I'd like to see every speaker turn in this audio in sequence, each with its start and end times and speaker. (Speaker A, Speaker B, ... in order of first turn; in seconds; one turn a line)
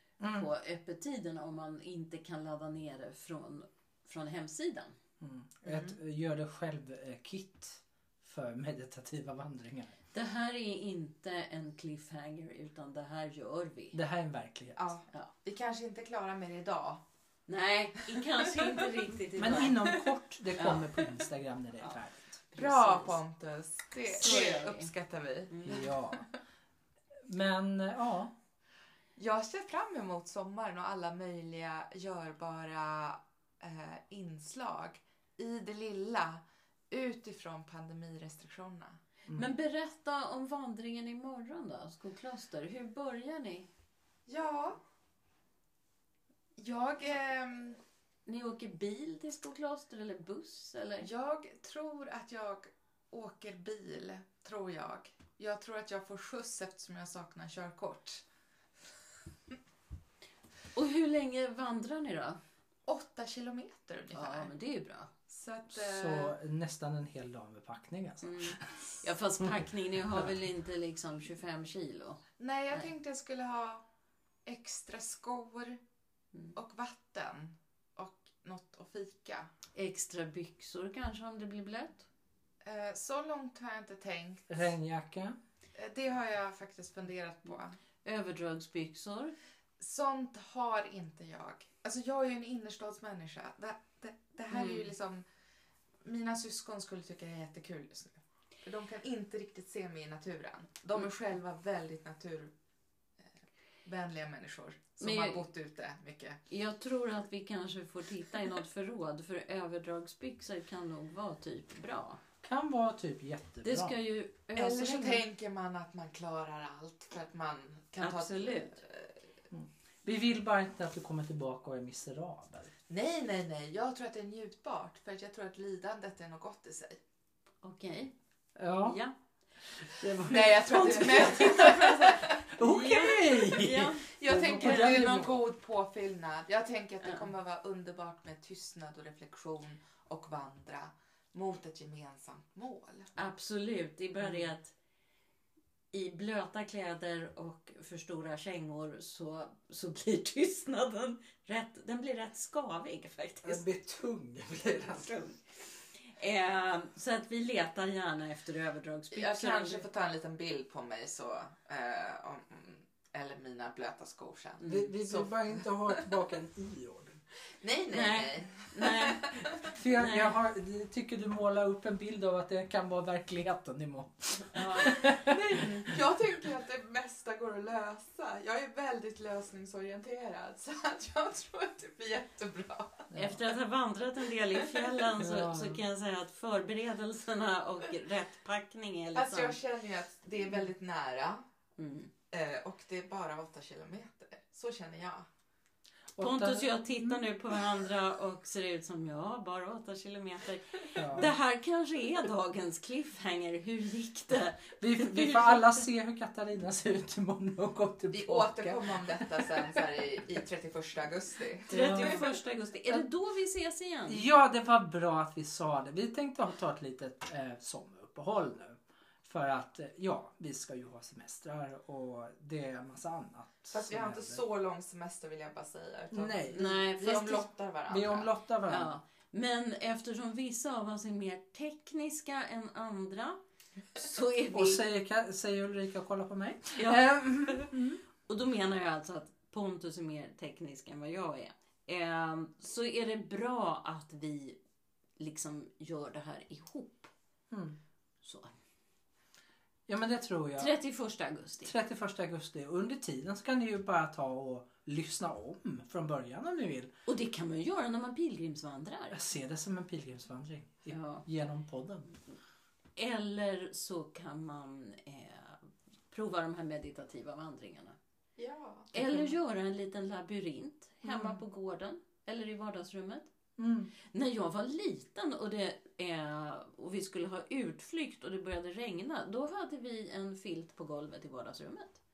Speaker A: 0.2-0.5
Speaker B: 0.2-5.0
Speaker A: 5.2-10.0
Speaker C: 5.7-6.0
Speaker B: 10.1-14.0
Speaker A: 13.9-14.9
Speaker C: 14.8-17.0
Speaker B: 17.5-19.9
Speaker C: 18.3-18.8
Speaker A: 19.4-22.4
Speaker C: 19.8-20.1
Speaker B: 20.6-20.9
Speaker B: 22.5-23.2
Speaker C: 22.6-26.3
Speaker B: 24.1-24.9
Speaker B: 25.5-25.8
Speaker A: 25.6-26.3
Speaker A: 27.3-28.3
Speaker C: 29.2-39.0
Speaker B: 39.3-43.7
Speaker C: 44.3-44.8
Speaker C: 46.6-47.8
Speaker B: 48.3-51.1
Speaker C: 51.0-58.2
Speaker B: 60.7-62.4
Speaker C: 62.9-64.5
Speaker B: 64.1-65.1
Speaker C: 65.3-66.4
Speaker A: 65.7-68.8
Speaker B: 68.2-72.9
Speaker A: 69.4-70.3
Speaker C: 72.4-73.8
Speaker C: 74.5-75.8
Speaker C: 76.5-79.5
Speaker B: 79.7-82.1
Speaker C: 82.6-84.7
Speaker A: 84.5-85.4
Speaker C: 85.8-87.8
Speaker B: 88.0-89.4
Speaker C: 89.8-95.2
Speaker B: 94.5-94.9
Speaker C: 96.0-102.5
Speaker C: 103.8-106.4
Speaker B: 105.0-105.5
Speaker B: 106.5-112.2
Speaker A: 112.4-114.0
Speaker B: 113.6-115.2
Speaker C: 114.6-119.2
Speaker B: 118.0-118.8
Speaker A: 119.5-122.7
Speaker C: 122.9-127.0
Speaker B: 127.6-128.1
Speaker A: 128.6-129.0
Speaker B: 128.8-129.2
Speaker A: 129.8-135.4
Speaker C: 130.1-132.5
Speaker B: 132.5-135.1
Speaker C: 134.0-143.1
Speaker B: 137.0-137.3
Speaker B: 143.2-144.7
Speaker B: 145.9-153.7
Speaker A: 153.4-155.3
Speaker B: 156.0-159.8
Speaker C: 159.1-166.1
Speaker B: 164.6-164.9
Speaker A: 164.6-167.2
Speaker C: 167.6-169.4
Speaker B: 167.9-170.4
Speaker A: 169.6-175.8
Speaker B: 174.5-174.9
Speaker C: 174.8-183.1
Speaker A: 183.1-183.4
Speaker B: 183.1-189.6
Speaker C: 184.6-185.0
Speaker A: 185.2-185.8
Speaker C: 189.2-191.5
Speaker B: 191.8-192.1
Speaker C: 192.3-195.3
Speaker A: 196.2-197.3
Speaker B: 196.2-205.8
Speaker A: 201.0-201.3
Speaker A: 204.8-209.9
Speaker C: 208.1-212.3
Speaker B: 211.7-214.2
Speaker A: 211.7-212.3
Speaker A: 214.1-224.4
Speaker C: 223.7-228.3
Speaker A: 226.1-226.8
Speaker B: 226.5-227.5
Speaker A: 227.9-229.0
Speaker B: 228.7-233.4
Speaker B: 233.9-234.8
Speaker A: 234.5-238.0
Speaker B: 236.8-244.6
Speaker B: 245.2-247.1
Speaker A: 247.5-247.8
Speaker B: 248.2-248.5
Speaker A: 249.9-250.7
Speaker B: 250.6-251.7
Speaker A: 251.7-256.9
Speaker B: 257.1-259.2
Speaker A: 259.1-262.1
Speaker B: 260.9-261.2
Speaker B: 263.0-268.0
Speaker C: 268.4-268.9
Speaker B: 268.9-273.3
Speaker A: 269.0-269.3
Speaker A: 271.0-271.4
Speaker A: 273.6-273.9
Speaker B: 274.0-282.0